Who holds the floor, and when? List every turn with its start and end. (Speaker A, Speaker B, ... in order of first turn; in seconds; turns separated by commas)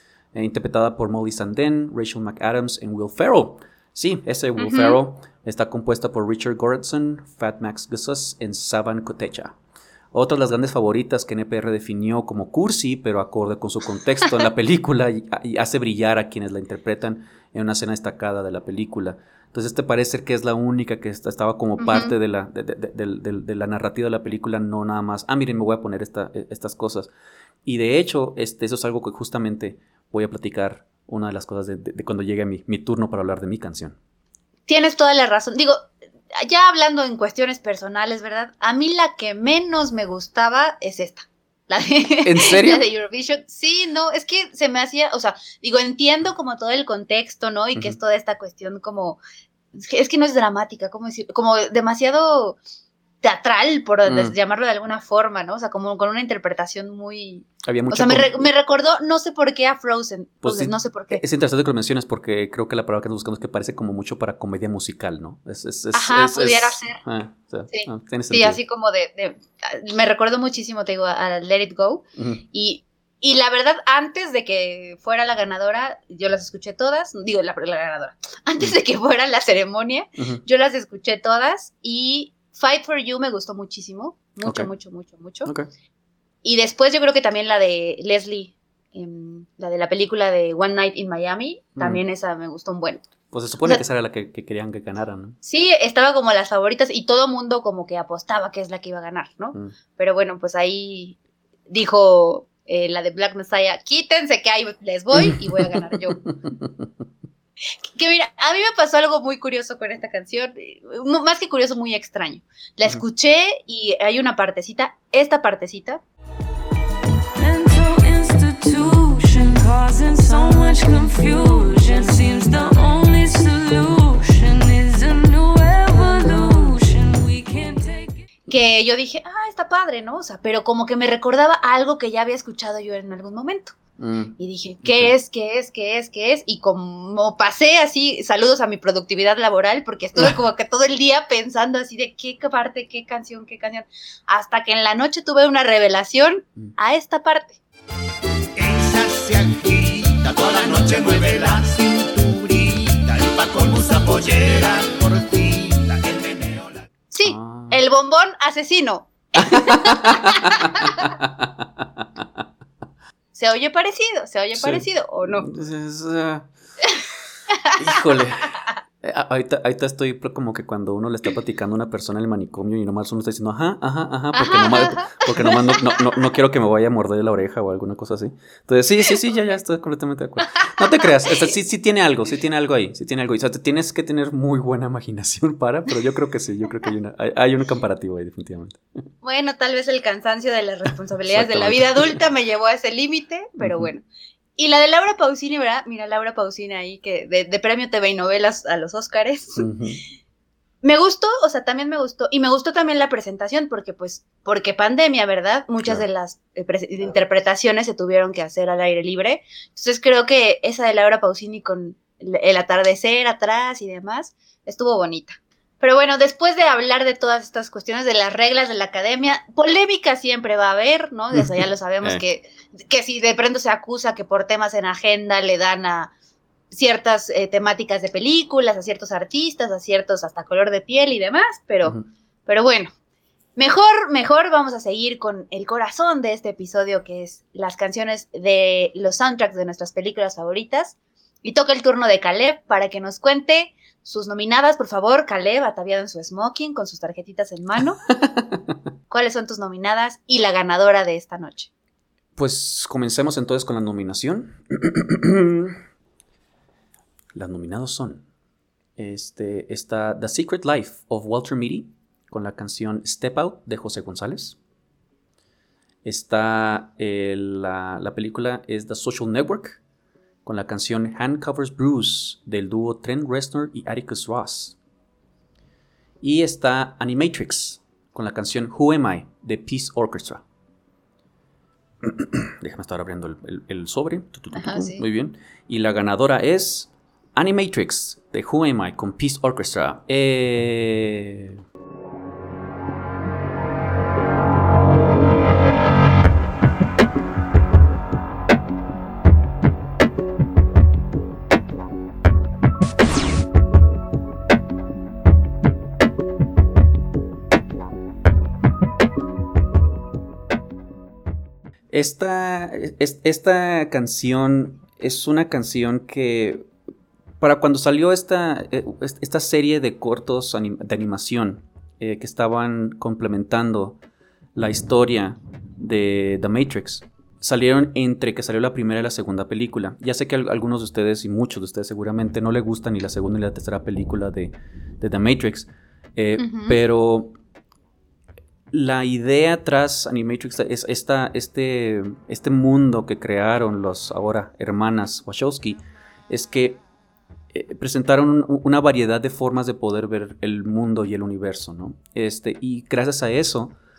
Speaker A: 0.3-9.6, Speaker B: 4.6-5.0, Speaker A: 10.1-27.1, Speaker B: 21.8-22.1, Speaker A: 27.6-34.0, Speaker B: 34.7-49.2, Speaker A: 42.2-42.8, Speaker B: 49.8-52.6, Speaker B: 53.2-61.2, Speaker A: 54.1-54.4, Speaker A: 57.6-58.3, Speaker A: 60.4-68.6, Speaker B: 65.9-67.0, Speaker B: 67.7-85.5, Speaker A: 72.2-72.4, Speaker B: 86.4-93.0, Speaker A: 91.8-92.0, Speaker A: 93.3-95.4, Speaker B: 95.4-101.2, Speaker B: 101.7-106.2, Speaker A: 105.1-106.9, Speaker B: 108.0-116.0, Speaker C: 117.4-128.1, Speaker B: 128.5-133.8, Speaker A: 134.0-135.1, Speaker B: 134.4-147.6, Speaker D: 148.6-156.8, Speaker B: 157.1-161.1, Speaker A: 157.2-157.8, Speaker A: 159.4-162.2, Speaker B: 163.3-165.5, Speaker A: 164.6-164.9, Speaker A: 165.4-166.5, Speaker B: 167.7-168.1, Speaker A: 167.8-188.8, Speaker B: 174.3-176.0, Speaker B: 189.2-194.1, Speaker A: 191.3-192.2, Speaker A: 193.6-193.9, Speaker B: 194.6-199.7, Speaker A: 199.6-200.0, Speaker B: 200.8-226.1, Speaker A: 221.3-222.2, Speaker B: 226.7-232.9, Speaker B: 233.6-248.0, Speaker A: 248.2-248.6, Speaker B: 249.1-251.7, Speaker A: 252.4-255.8, Speaker A: 257.3-258.2, Speaker A: 259.0-264.6, Speaker A: 266.1-269.8, Speaker A: 270.4-274.8, Speaker A: 276.2-280.4, Speaker A: 282.0-291.6, Speaker B: 284.5-285.0, Speaker A: 311.9-316.7, Speaker A: 317.4-324.0, Speaker A: 324.6-337.4, Speaker B: 336.4-336.8, Speaker A: 338.7-346.8, Speaker A: 347.5-353.8